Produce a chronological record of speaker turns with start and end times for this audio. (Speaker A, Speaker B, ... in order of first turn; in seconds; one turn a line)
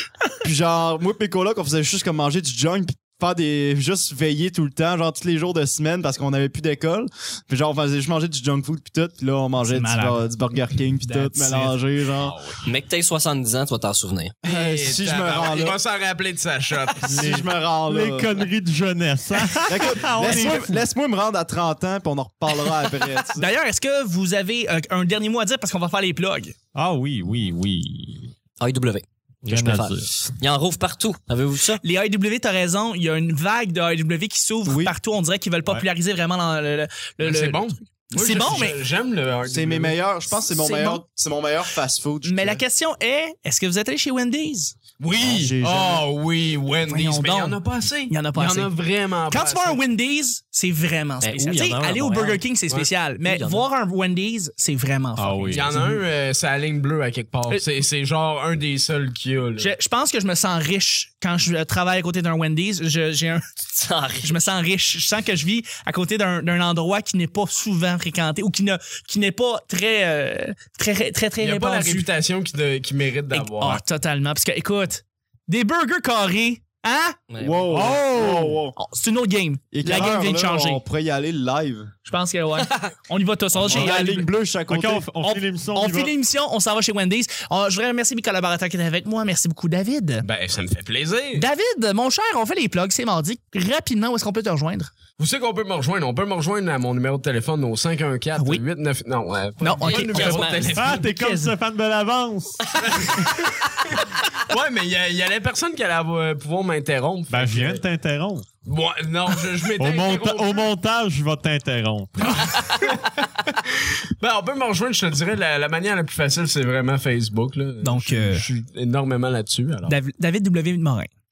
Speaker A: 0.4-12.4
Speaker B: 9.6-10.2
Speaker B: 10.9-11.8
Speaker C: 12.6-14.3
Speaker D: 14.4-17.2
Speaker A: 14.4-15.8
Speaker A: 17.0-18.3
Speaker E: 17.0-20.8
Speaker A: 19.6-23.5
Speaker B: 20.1-20.6
Speaker B: 23.3-26.5
Speaker E: 26.7-28.3
Speaker C: 28.6-31.8
Speaker E: 29.5-30.1
Speaker B: 31.8-38.8
Speaker A: 34.6-34.9
Speaker D: 37.2-40.0
Speaker A: 39.5-42.6
Speaker B: 40.4-41.0
Speaker B: 42.2-44.7
Speaker D: 45.0-49.8
Speaker A: 45.2-46.1
Speaker B: 46.9-48.7
Speaker B: 49.3-55.6
Speaker C: 51.2-52.4
Speaker C: 53.2-53.7
Speaker E: 55.2-56.0
Speaker D: 55.5-59.7
Speaker B: 59.6-63.5
Speaker C: 63.7-64.3
Speaker B: 64.2-72.1
Speaker D: 71.4-73.8
Speaker B: 73.3-77.2
Speaker C: 77.3-77.9
Speaker A: 77.4-78.8
Speaker E: 77.7-78.5
Speaker B: 78.7-80.8
Speaker A: 79.7-81.9
Speaker B: 82.0-84.3
Speaker E: 83.6-84.0
Speaker A: 83.7-85.1
Speaker E: 84.7-86.1
Speaker B: 85.2-90.3
Speaker D: 90.2-91.5
Speaker B: 91.3-94.9
Speaker D: 95.2-101.0
Speaker B: 98.4-98.6
Speaker B: 99.6-101.5
Speaker C: 99.8-100.8
Speaker E: 100.7-102.7
Speaker D: 102.8-107.8
Speaker E: 107.3-108.5
Speaker D: 108.6-110.7
Speaker E: 109.8-112.6
Speaker D: 112.3-119.9
Speaker B: 117.8-118.5
Speaker B: 119.8-121.1